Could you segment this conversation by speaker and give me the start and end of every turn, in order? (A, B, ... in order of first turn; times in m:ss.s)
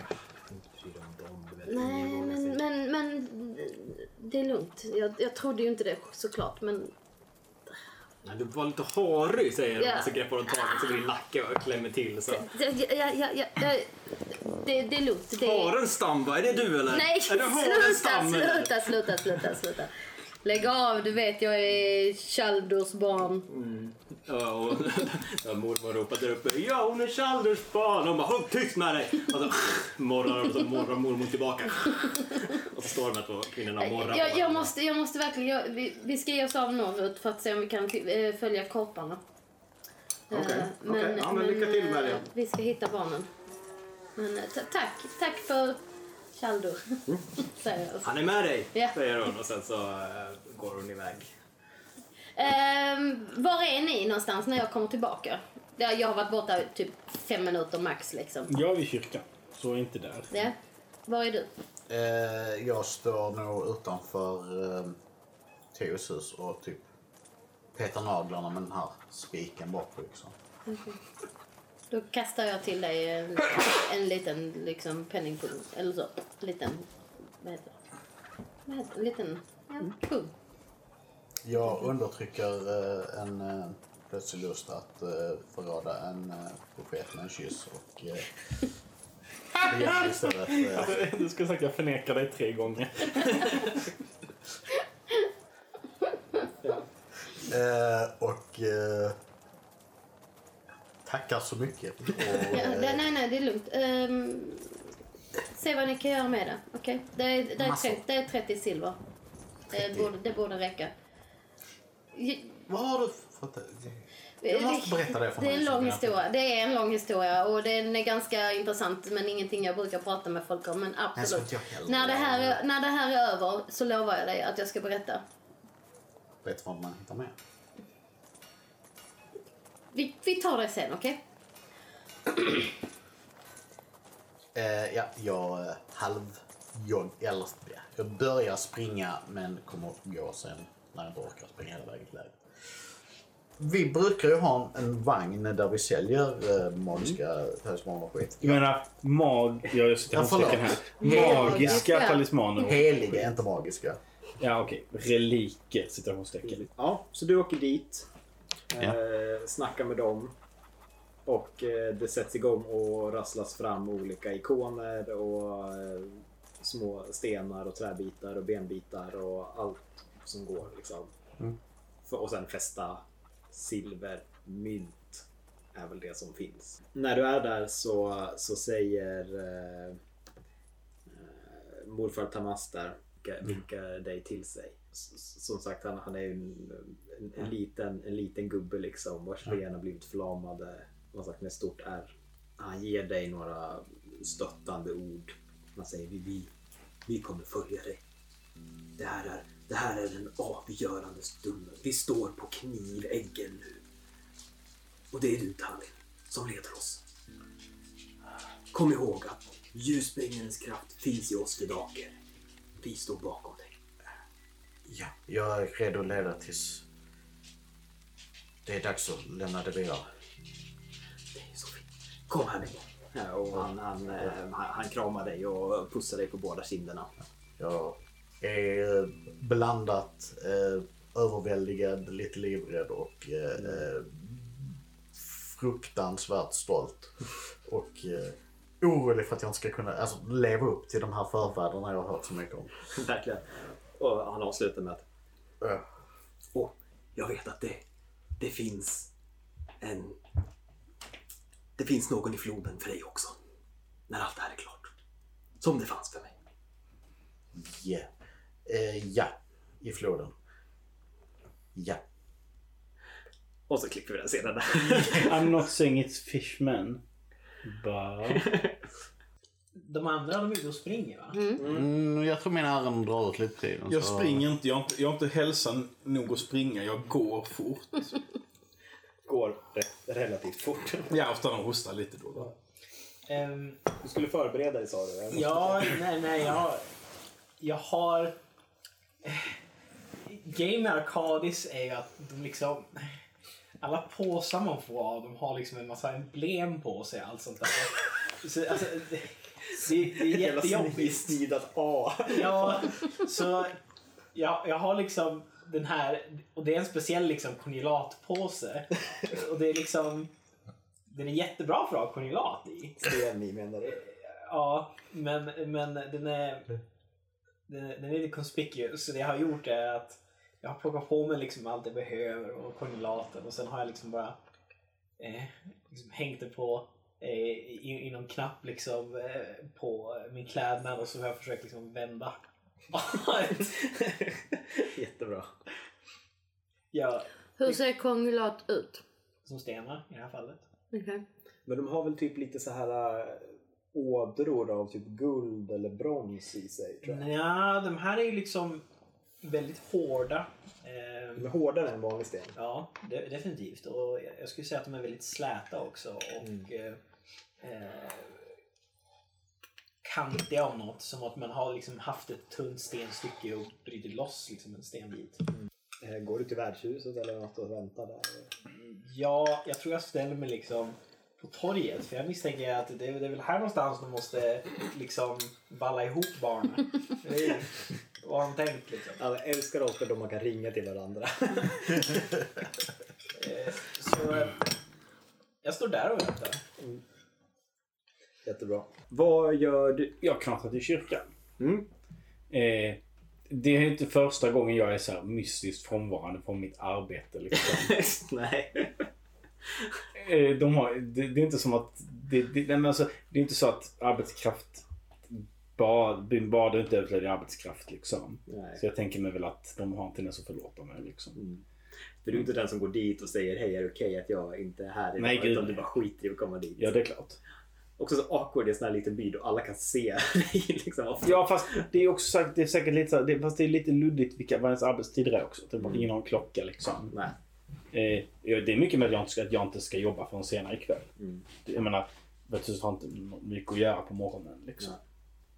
0:00.5-0:02.6 A
0:01.6-0:06.9 B
0:08.2-0:12.5 A
0:09.8-0:11.0 B
0:12.3-0:15.7 B
0:15.4-0:19.6 A
0:16.8-0:19.9 B
0:20.4-0:23.5 B
0:23.5-0:34.7 A
0:33.8-0:39.2 B
0:40.3-0:42.2 A
0:40.3-0:43.3 B
0:44.2-0:45.8 B
0:46.3-0:48.1 B
0:48.0-0:51.3 A
0:52.4-0:58.5 B
0:58.5-1:00.5 C
1:00.3-1:01.5 B
1:01.9-1:05.0 D
1:05.7-1:06.8 D
1:07.7-1:10.3 D
1:10.7-1:11.0 B
1:11.9-1:16.9 B
1:17.4-1:17.7 B
1:18.6-1:20.3 B
1:21.4-1:28.3 D
1:29.5-1:33.8 C
1:29.6-1:31.0 D
1:37.4-1:39.2 D
1:41.0-1:43.0 D
1:42.5-1:44.8 B
1:45.5-1:49.0 B
1:47.6-1:48.0 D
1:49.7-1:50.1 D
1:49.7-1:50.9 B
1:52.1-1:52.6 B
1:52.7-1:56.2 D
1:54.4-2:05.2 B
2:01.2-2:02.6 D
2:06.4-2:07.3 D
2:09.9-2:11.2 B
2:14.5-2:22.8 D
2:23.6-2:28.6 D
2:28.4-2:32.8 C
2:30.1-2:31.8 D
2:31.0-2:32.8 B
2:32.6-2:34.0 D
2:34.4-2:36.6 C
2:36.4-2:38.1 A
2:38.7-2:40.3 A
2:41.2-2:51.1 A
2:52.0-3:00.0 A
3:01.1-3:16.5 A
3:17.0-3:18.0 A
3:19.0-3:23.8 A
3:25.1-3:27.0 A
3:28.7-3:32.2 A
3:32.8-3:33.7 A
3:34.8-3:36.8 D
3:38.6-3:40.1 D
3:41.3-3:47.1 A
3:47.6-4:02.7 D
4:02.9-4:05.0 A
4:06.5-4:07.8 A
4:08.4-4:09.1 A
4:09.8-4:10.2 A
4:11.8-4:13.4 A
4:14.1-4:14.9 A
4:15.6-4:16.3 A
4:17.5-4:18.1 D
4:18.6-4:20.3 D
4:21.7-4:22.0 D
4:23.7-4:25.5 A
4:24.8-4:27.0 C
4:27.6-4:28.4 C
4:28.3-4:28.7 A
4:29.8-4:31.4 E
4:31.3-4:31.6 B
4:31.6-4:31.9 A
4:31.6-4:34.4 D
4:33.9-4:38.2 C
4:39.2-4:41.1 A
4:41.1-4:42.5 C
4:43.3-4:43.8 E
4:44.0-4:46.0 A
4:45.3-4:46.8 E
4:47.6-4:48.3 E
4:49.2-4:49.6 E
4:50.2-4:53.2 E
4:53.8-5:01.4 E
5:00.2-5:02.9 A
5:02.3-5:03.7 E
5:04.3-5:10.3 E
5:11.1-5:13.1 E
5:13.0-5:14.0 A
5:14.3-5:16.7 E
5:17.7-5:24.4 E
5:25.2-5:32.4 E
5:32.9-5:34.0 E
5:34.8-5:35.6 A
5:36.9-5:37.8 E
5:37.6-5:39.0 B
5:39.4-5:40.6 E
5:40.9-5:41.2 B
5:41.6-5:47.2 A
5:47.0-5:48.8 E
5:49.4-5:51.5 E
5:51.4-5:52.5 A
5:52.5-5:57.0 E
5:57.6-5:58.5 E
6:00.0-6:05.4 E
6:06.0-6:08.5 A
6:08.7-6:19.2 E
6:19.2-6:22.4 A
6:23.4-6:24.7 E
6:25.6-6:26.6 E
6:28.4-6:30.1 A
6:30.2-6:31.2 C
6:31.6-6:31.9 A
6:32.5-6:38.0 C
6:37.5-6:39.1 A
6:40.1-6:51.4 C
6:48.5-6:48.8 A
6:51.4-6:51.6 A
6:52.2-6:56.9 A
6:55.2-6:55.8 C
6:56.8-6:57.4 C
6:58.0-7:01.8 A
7:01.2-7:07.1 C
7:05.8-7:06.1 A
7:07.1-7:07.3 A
7:07.9-7:11.1 C
7:11.2-7:11.4 A
7:11.6-7:14.9 C